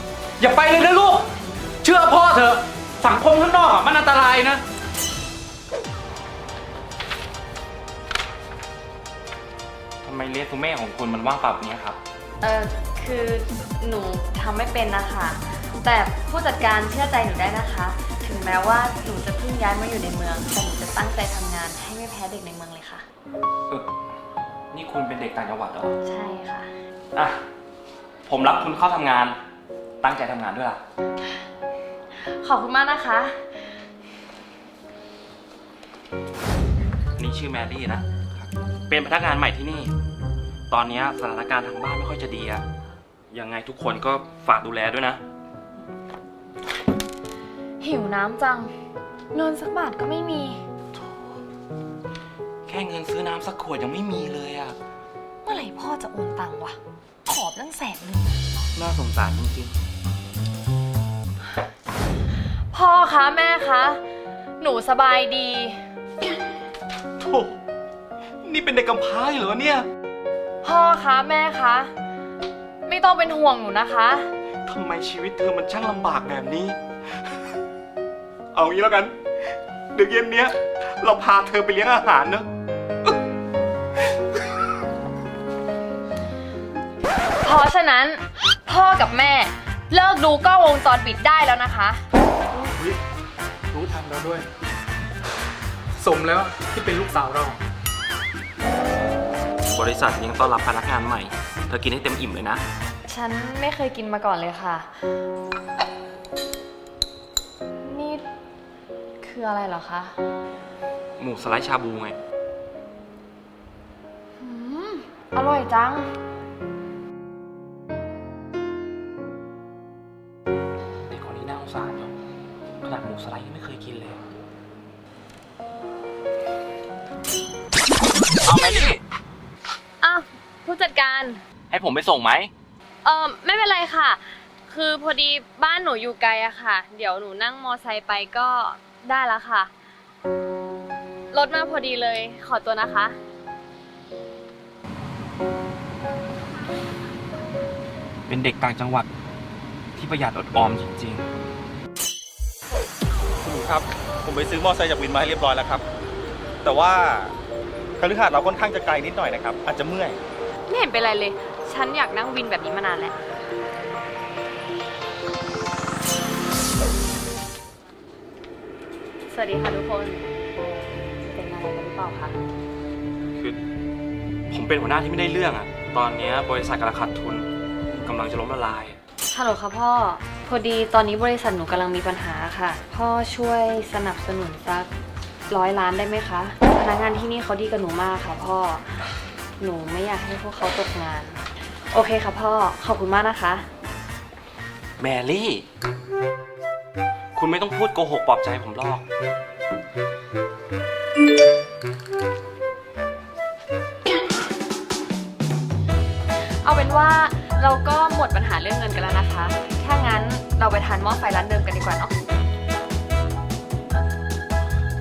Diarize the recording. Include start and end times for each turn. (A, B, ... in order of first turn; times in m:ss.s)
0:00.4-0:01.2 A
0:00.4-0:01.2 B
0:01.8-0:02.6 B
0:01.8-0:04.6 A
0:03.6-0:04.1 B
0:10.0-0:12.0 A
0:12.4-0:23.0 C
0:24.7-0:25.9 A
0:26.0-0:26.7 C
0:27.1-0:27.4 A
0:28.3-0:29.4 A
0:30.0-0:30.8 A
0:32.2-0:33.4 C
0:37.2-0:39.9 A
0:40.7-0:42.6 A
0:43.3-0:45.2 A
0:47.8-0:48.7 C
0:49.3-0:50.6 C
0:52.6-0:54.8 A
0:55.4-0:58.4 C
0:58.7-0:59.7 A
1:02.7-1:04.0 C
1:04.6-1:05.8 C
1:07.2-1:07.6 A
1:08.4-1:09.8 A
1:10.6-1:11.9 C
1:12.8-1:14.3 C
1:14.6-1:16.8 A
1:18.5-1:19.1 A
1:19.9-1:22.4 A
1:27.4-1:32.0 C
1:32.6-1:33.0 B
1:33.7-1:34.5 B
1:36.0-1:37.6 B
1:39.6-1:42.6 A
1:43.1-1:44.9 C
1:47.8-1:48.2 C
1:49.2-1:50.2 C
1:51.2-1:52.2 A
1:54.4-1:56.1 C
2:01.1-2:02.1 A
2:02.8-2:04.2 A
2:08.4-2:09.0 A
2:10.0-2:11.4 C
2:11.7-2:12.5 A
2:13.0-2:19.7 C
2:21.3-2:23.2 C
2:28.3-2:29.1 A
2:30.0-2:31.3 A
2:33.4-2:35.8 D
2:36.6-2:37.3 D
2:38.0-2:40.2 D
2:40.7-2:43.2 C
2:49.3-2:52.4 C
2:54.5-2:57.5 A
2:58.0-2:59.0 A
2:59.3-3:04.9 C
3:05.5-3:09.0 C
3:09.6-3:13.6 C
3:15.0-3:15.6 A
3:17.3-3:19.0 A
3:26.4-3:32.1 C